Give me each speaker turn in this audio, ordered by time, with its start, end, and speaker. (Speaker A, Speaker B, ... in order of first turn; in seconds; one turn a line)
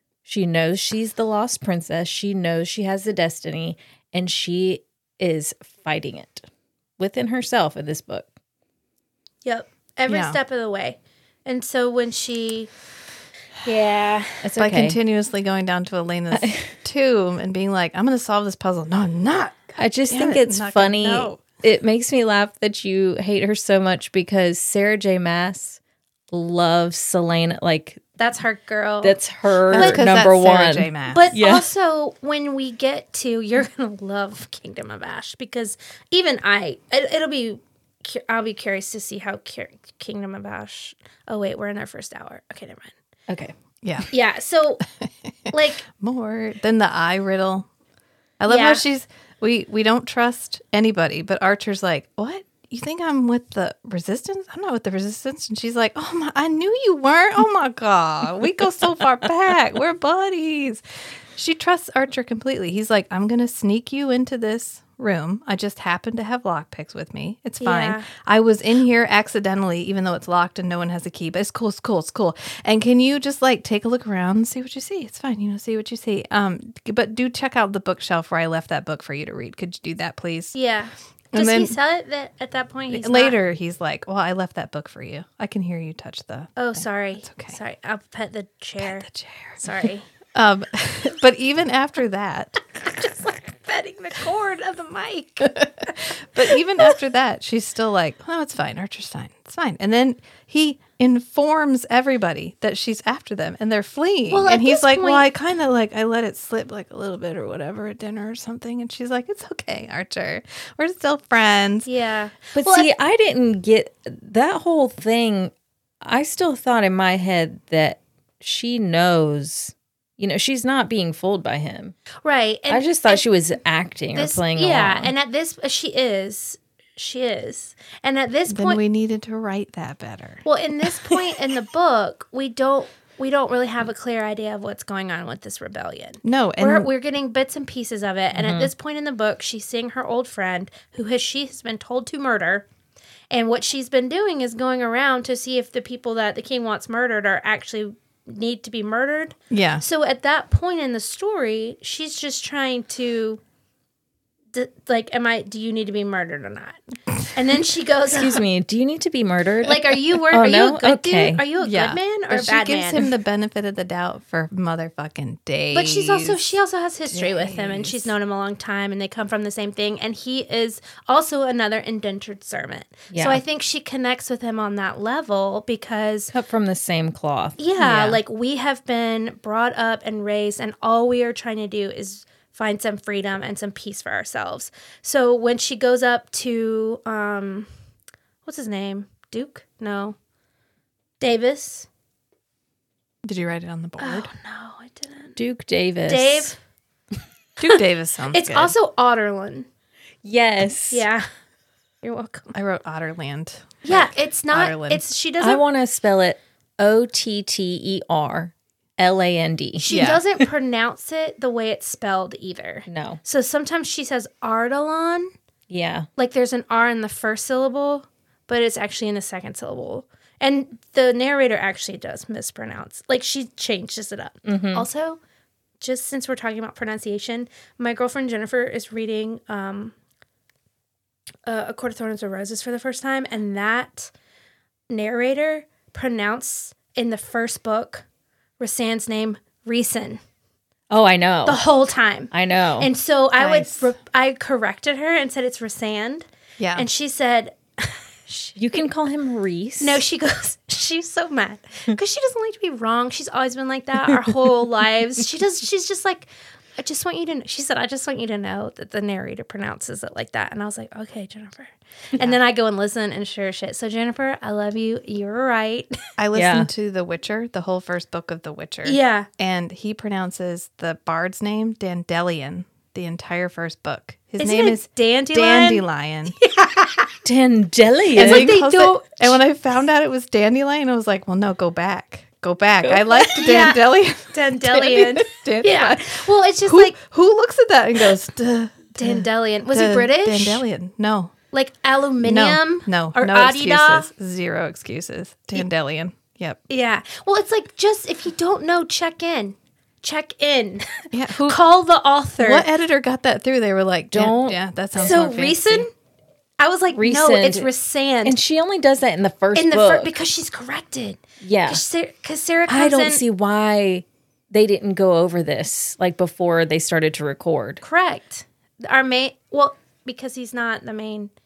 Speaker A: 0.2-6.4
Speaker A: 7.0-8.3
Speaker B: 9.4-12.7
Speaker C: 10.1-10.4
Speaker B: 13.6-14.4
Speaker A: 14.4-15.0
Speaker C: 14.6-21.4
Speaker A: 16.3-16.7
Speaker A: 19.8-25.8
Speaker A: 26.3-28.0
Speaker B: 28.2-29.2
Speaker A: 29.0-31.7
Speaker C: 29.7-31.3
Speaker B: 29.7-30.0
Speaker B: 31.1-42.9
Speaker A: 43.3-43.5
Speaker C: 43.8-44.1
Speaker B: 44.1-44.8
Speaker C: 45.5-47.7
Speaker B: 45.5-45.8
Speaker C: 48.4-60.8
Speaker B: 48.5-48.8
Speaker C: 61.4-80.5
Speaker B: 67.6-68.0
Speaker B: 80.5-83.3
Speaker C: 81.3-81.7
Speaker C: 82.9-87.6
Speaker B: 86.6-89.0
Speaker C: 88.8-89.6
Speaker B: 89.6-90.0
Speaker C: 90.3-92.6
Speaker B: 92.8-96.9
Speaker C: 95.5-111.9
Speaker B: 104.3-105.3
Speaker B: 111.8-112.9
Speaker A: 112.6-122.0
Speaker B: 122.2-123.2
Speaker A: 122.7-125.1
Speaker B: 124.1-128.8
Speaker C: 128.5-130.4
Speaker B: 130.4-142.7
Speaker C: 136.2-136.9
Speaker A: 138.3-138.7
Speaker B: 143.3-153.4
Speaker C: 149.5-149.8
Speaker B: 154.5-156.8
Speaker B: 157.3-158.4
Speaker A: 158.1-161.4
Speaker B: 159.6-163.1
Speaker C: 161.6-166.5
Speaker B: 165.7-176.3
Speaker C: 167.1-168.1
Speaker A: 173.1-173.4
Speaker A: 176.3-178.2
Speaker B: 177.6-187.7
Speaker B: 188.4-190.2
Speaker B: 191.2-191.9
Speaker C: 193.2-194.3
Speaker B: 194.0-195.3
Speaker A: 195.3-196.5
Speaker B: 196.1-196.6
Speaker C: 197.6-198.7
Speaker B: 198.3-199.7
Speaker A: 200.2-201.1
Speaker B: 200.9-201.2
Speaker B: 202.0-202.5
Speaker C: 202.5-205.0
Speaker B: 203.8-205.6
Speaker A: 205.4-210.5
Speaker B: 209.8-215.3
Speaker C: 209.9-210.2
Speaker A: 212.9-213.2
Speaker A: 215.7-216.1
Speaker B: 216.2-225.2
Speaker A: 224.4-224.9
Speaker B: 225.8-229.9
Speaker B: 231.4-234.1
Speaker B: 234.9-238.0
Speaker B: 238.6-240.2
Speaker A: 240.9-241.6
Speaker B: 241.4-248.8
Speaker A: 242.3-242.9
Speaker C: 243.4-243.9
Speaker C: 246.6-246.8
Speaker A: 248.6-250.0
Speaker B: 249.8-266.0
Speaker C: 266.2-276.4
Speaker A: 266.3-266.7
Speaker B: 268.8-269.3
Speaker B: 274.4-275.8
Speaker B: 276.4-277.1
Speaker A: 277.2-278.6
Speaker C: 278.1-291.3
Speaker B: 278.2-279.4
Speaker B: 283.1-286.9
Speaker B: 289.0-290.6
Speaker B: 291.5-294.1
Speaker C: 292.2-296.6
Speaker B: 296.7-302.7
Speaker C: 301.1-301.6
Speaker C: 302.4-305.9
Speaker A: 304.1-304.6
Speaker B: 305.0-305.9
Speaker B: 306.6-308.4
Speaker A: 306.9-307.7
Speaker A: 308.2-310.1
Speaker B: 309.5-313.2
Speaker A: 311.4-311.8
Speaker A: 312.7-317.8
Speaker B: 317.8-321.3